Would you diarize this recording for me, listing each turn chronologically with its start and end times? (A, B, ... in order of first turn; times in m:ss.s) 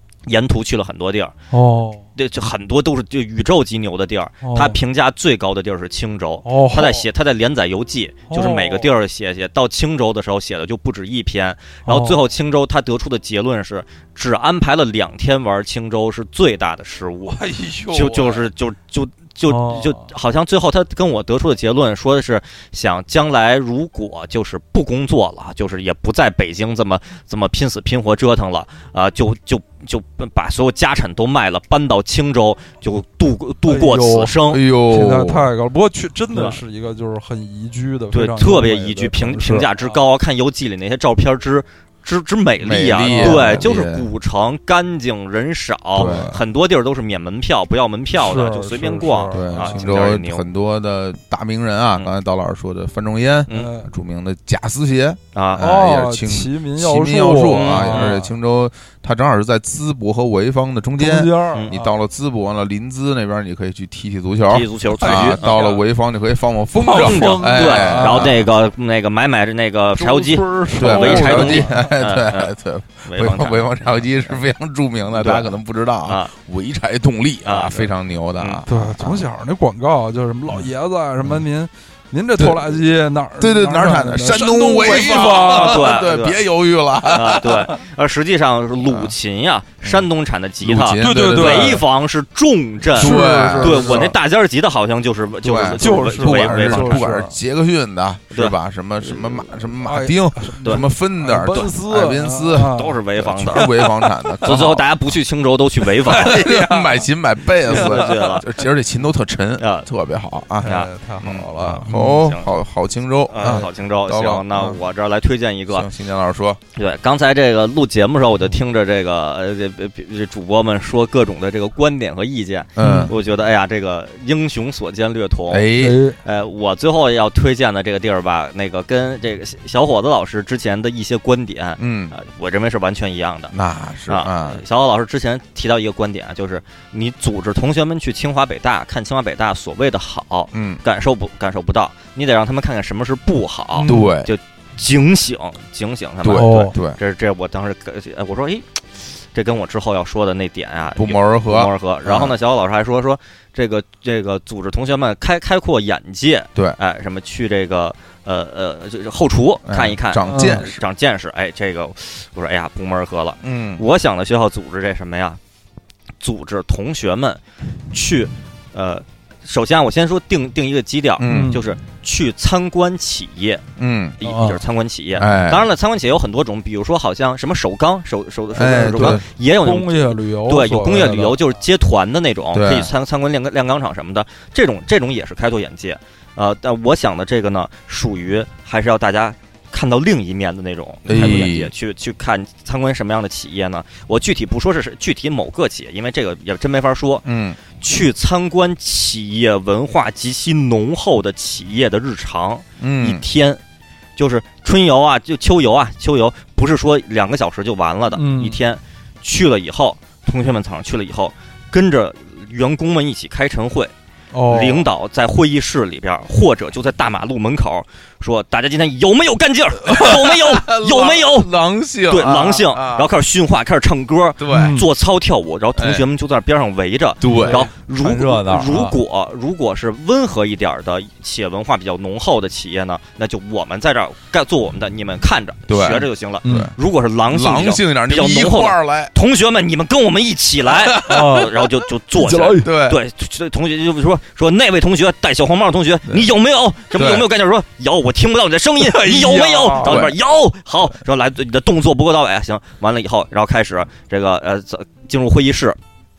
0:00.3-0:01.3 A
0:01.5-0:02.0 B
0:02.2-0:34.6 A
0:04.4-0:04.8 B
0:06.4-0:07.1 B
0:08.3-0:08.9 B
0:11.9-0:12.2 B
0:17.3-0:18.5 B
0:19.5-0:20.1 B
0:33.7-0:39.7 B
0:34.5-0:35.5 C
0:36.3-0:36.6 A
0:38.1-0:50.5 A
0:42.6-0:44.1 C
0:43.0-0:43.7 B
0:46.0-0:46.4 C
0:46.0-0:46.4 B
0:48.2-0:50.0 B
0:49.3-1:08.5 C
0:53.5-0:53.9 B
0:55.4-0:55.6 A
0:55.6-0:58.3 B
0:57.5-0:58.1 A
1:01.0-1:01.9 B
1:04.5-1:05.7 A
1:05.0-1:05.8 B
1:06.8-1:08.4 B
1:06.9-1:12.5 A
1:10.0-1:11.9 B
1:10.8-1:19.2 C
1:13.0-1:13.9 A
1:15.2-1:16.3 A
1:17.4-1:18.6 A
1:18.7-1:25.9 B
1:22.4-1:22.8 C
1:23.4-1:27.7 C
1:24.9-1:26.4 A
1:27.0-1:37.1 A
1:28.8-1:29.1 C
1:29.8-1:30.1 C
1:30.6-1:31.8 C
1:31.0-1:31.8 B
1:32.9-1:34.2 B
1:33.0-1:34.1 C
1:35.4-1:44.9 C
1:35.8-1:37.4 B
1:39.7-1:43.7 B
1:42.7-1:43.7 A
1:44.4-1:46.4 A
1:46.1-1:54.8 C
1:46.1-1:47.1 B
1:47.6-1:48.4 B
1:47.6-1:48.5 A
1:49.6-1:49.9 A
1:50.6-1:52.1 B
1:50.6-1:50.9 A
1:51.9-1:52.5 A
1:53.3-1:55.9 A
1:55.7-1:56.6 C
1:56.8-2:05.7 A
2:02.8-2:03.1 C
2:02.8-2:03.1 B
2:05.5-2:06.0 C
2:05.8-2:06.2 B
2:06.2-2:13.5 A
2:11.8-2:12.2 C
2:13.5-2:14.6 C
2:14.1-2:28.8 A
2:20.5-2:20.8 C
2:23.7-2:24.2 B
2:23.9-2:24.3 C
2:26.2-2:27.0 C
2:26.3-2:26.7 B
2:29.3-2:45.4 A
2:31.0-2:32.3 C
2:39.7-2:40.8 C
2:40.2-2:40.7 B
2:43.4-2:43.8 C
2:46.2-2:53.6 A
2:51.2-2:51.6 C
2:51.3-2:51.6 B
2:53.8-2:54.2 C
2:54.2-3:23.6 A
2:54.2-2:54.6 B
2:55.2-2:55.6 C
2:58.5-2:59.2 C
2:58.6-3:01.4 B
3:02.5-3:02.9 C
3:11.0-3:11.7 C
3:11.1-3:11.4 B
3:17.2-3:17.6 C
3:22.8-3:23.2 C
3:24.2-3:33.9 A
3:28.1-3:28.6 B
3:34.3-3:34.9 B
3:34.5-3:41.5 A
3:39.8-3:43.1 C
3:42.1-4:15.8 A
3:44.4-3:44.8 C
3:44.5-3:44.9 B
3:45.7-3:46.1 C
3:47.2-3:47.7 C
3:47.3-3:49.0 B
3:55.7-3:56.7 C
3:56.4-3:56.7 B
3:57.3-3:59.1 C
4:00.7-4:01.4 C
4:01.0-4:01.6 B
4:02.1-4:02.7 B
4:02.6-4:03.0 C
4:06.9-4:07.3 C
4:08.8-4:10.0 B
4:09.8-4:10.2 C